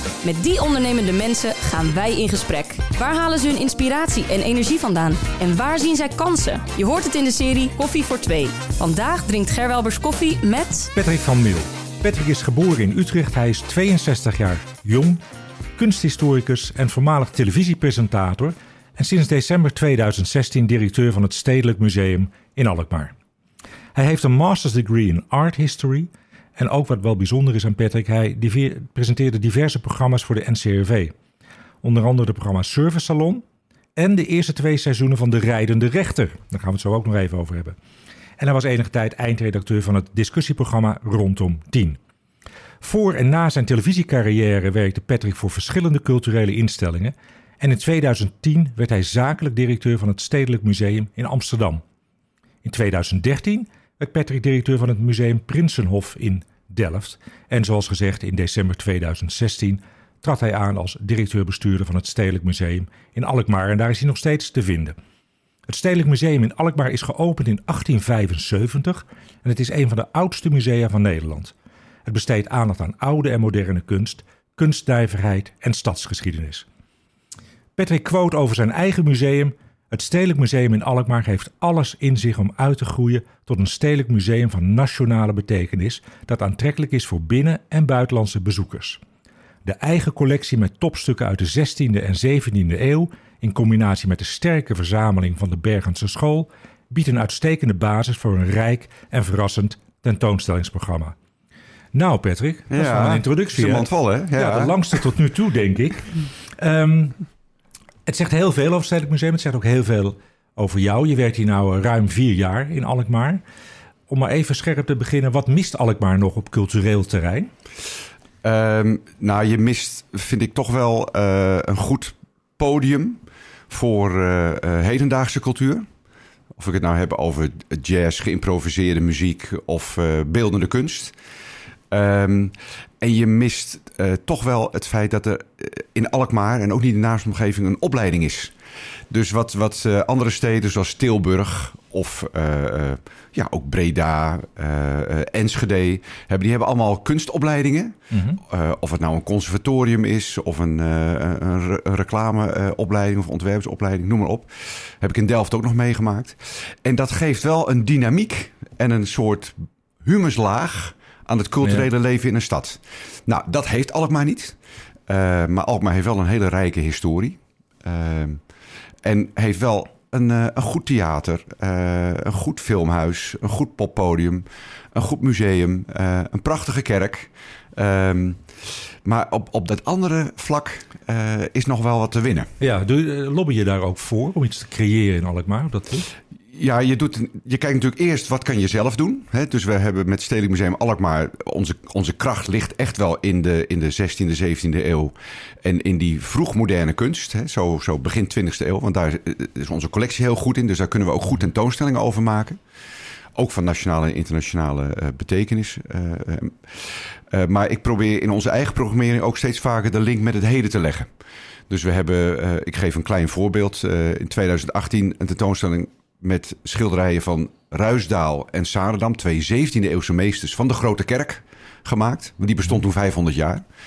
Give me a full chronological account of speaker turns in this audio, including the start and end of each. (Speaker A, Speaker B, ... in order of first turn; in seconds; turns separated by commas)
Speaker A: 0.2-10.9, Speaker B: 10.9-15.2, Speaker B: 15.8-23.1, Speaker B: 23.9-31.1, Speaker B: 31.8-33.4, Speaker B: 34.0-37.8, Speaker B: 38.4-42.0, Speaker B: 42.8-51.8, Speaker B: 52.6-65.0, Speaker B: 65.7-71.5, Speaker B: 72.0-76.7, Speaker B: 77.8-89.0, Speaker B: 89.6-101.1, Speaker B: 101.9-107.2, Speaker C: 102.7-104.9, Speaker B: 108.0-113.4, Speaker B: 114.1-117.5, Speaker C: 118.4-125.9, Speaker C: 126.5-131.1, Speaker C: 131.9-138.5, Speaker C: 139.1-168.4, Speaker B: 148.1-148.4, Speaker C: 169.0-178.4, Speaker C: 179.0-182.5, Speaker B: 182.6-186.1, Speaker C: 186.5-202.6, Speaker C: 203.3-211.1, Speaker C: 211.7-223.6